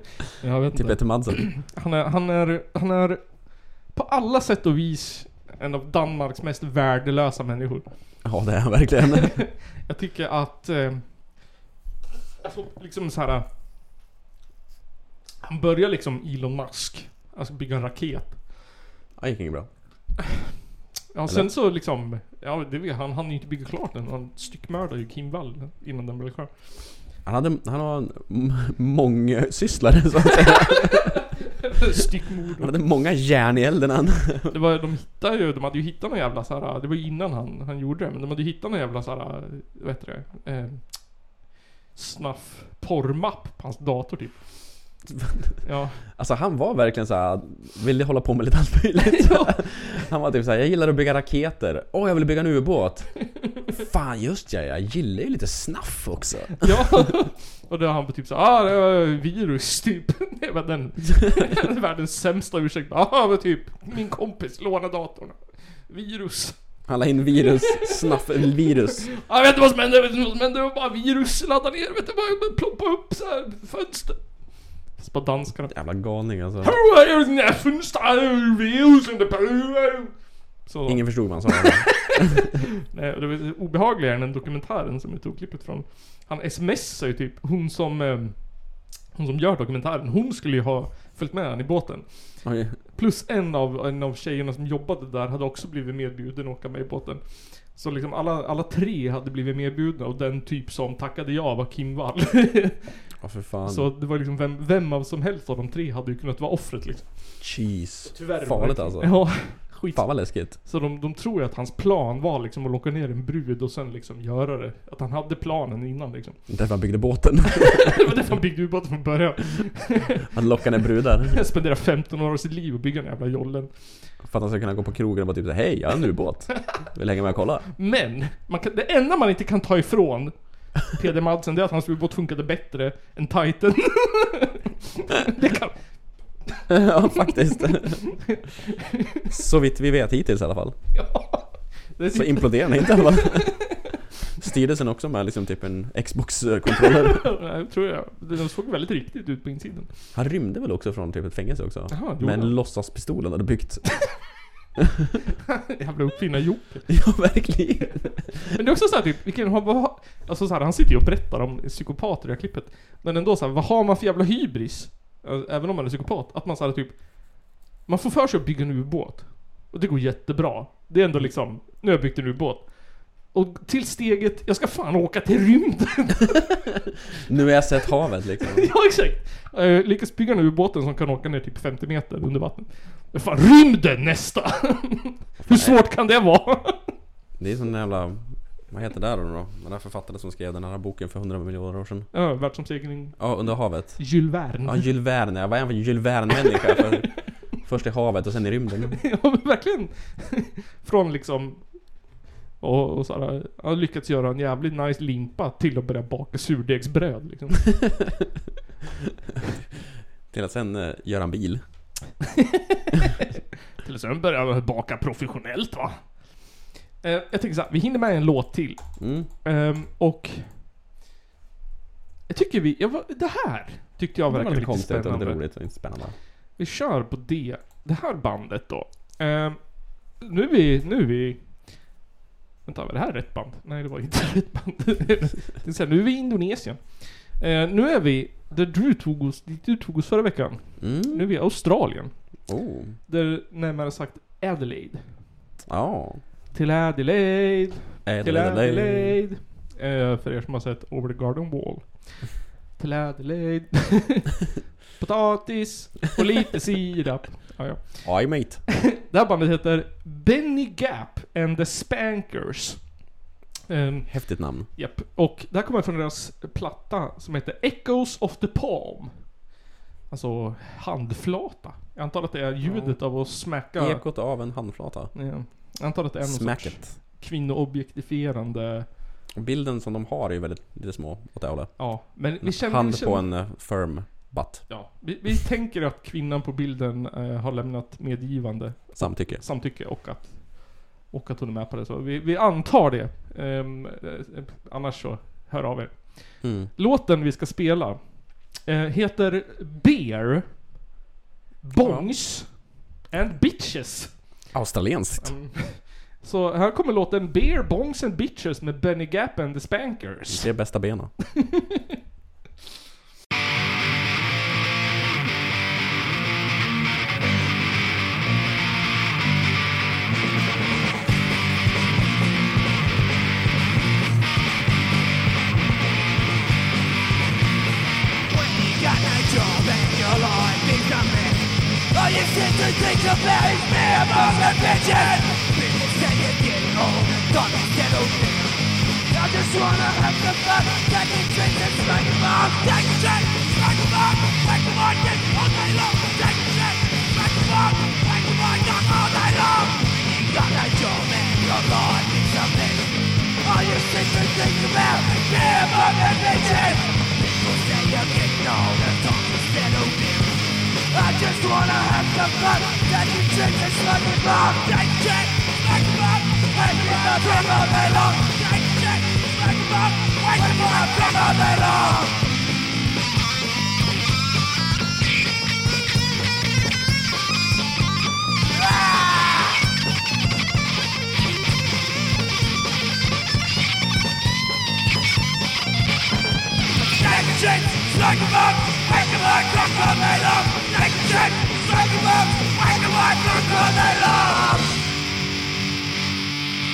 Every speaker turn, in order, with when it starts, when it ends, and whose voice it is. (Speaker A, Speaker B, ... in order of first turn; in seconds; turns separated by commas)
Speaker A: 0.4-8.5, Speaker B: 0.7-1.6, Speaker B: 8.2-9.4, Speaker A: 9.8-11.6, Speaker A: 12.4-13.4, Speaker A: 15.4-18.6, Speaker B: 19.2-20.1, Speaker A: 21.1-27.0, Speaker B: 27.2-31.1, Speaker A: 31.8-32.7, Speaker B: 32.6-34.5, Speaker A: 34.5-45.0, Speaker B: 45.1-57.0, Speaker A: 45.6-46.0, Speaker A: 49.0-50.0, Speaker A: 56.6-82.2, Speaker B: 66.8-69.1, Speaker B: 75.7-76.8, Speaker B: 80.8-82.2, Speaker A: 82.9-103.1, Speaker B: 92.4-92.8, Speaker B: 103.2-103.9, Speaker A: 103.6-116.6, Speaker B: 107.4-110.6, Speaker B: 116.5-118.0, Speaker A: 117.7-120.1, Speaker B: 120.3-121.4, Speaker A: 121.3-124.1, Speaker B: 124.2-127.7, Speaker A: 127.8-136.6, Speaker B: 136.7-138.2, Speaker A: 137.2-138.4, Speaker B: 139.3-140.8, Speaker A: 140.9-143.5, Speaker B: 142.1-143.6, Speaker B: 144.4-147.3, Speaker A: 147.0-150.1, Speaker B: 150.1-154.3, Speaker A: 151.9-152.6, Speaker A: 155.8-157.2, Speaker B: 156.9-158.3, Speaker A: 158.5-176.4, Speaker B: 177.3-178.7, Speaker A: 178.4-186.9, Speaker B: 185.4-185.8, Speaker B: 187.4-192.1, Speaker A: 192.1-194.8, Speaker B: 193.2-199.0, Speaker A: 198.9-207.9, Speaker B: 210.3-212.0, Speaker A: 212.9-220.6, Speaker B: 219.0-219.3, Speaker A: 222.3-225.8, Speaker B: 224.3-226.2, Speaker A: 226.6-231.9, Speaker A: 232.6-245.4, Speaker B: 240.8-241.3, Speaker B: 242.4-243.0, Speaker B: 245.7-246.2, Speaker A: 246.5-254.3, Speaker B: 248.0-249.2, Speaker A: 254.9-263.0, Speaker B: 258.0-258.6, Speaker A: 263.7-269.5, Speaker B: 264.1-264.7, Speaker A: 270.1-278.9, Speaker B: 272.6-275.2, Speaker B: 276.2-276.9, Speaker B: 279.3-284.7, Speaker A: 281.8-283.3, Speaker A: 284.7-300.7, Speaker B: 288.9-289.4, Speaker B: 296.4-296.7, Speaker A: 301.6-304.5, Speaker B: 301.8-302.1, Speaker B: 304.5-305.3, Speaker A: 305.2-311.0, Speaker B: 310.3-311.1, Speaker C: 328.3-338.6, Speaker C: 339.1-372.2, Speaker C: 378.8-379.5, Speaker C: 387.0-394.6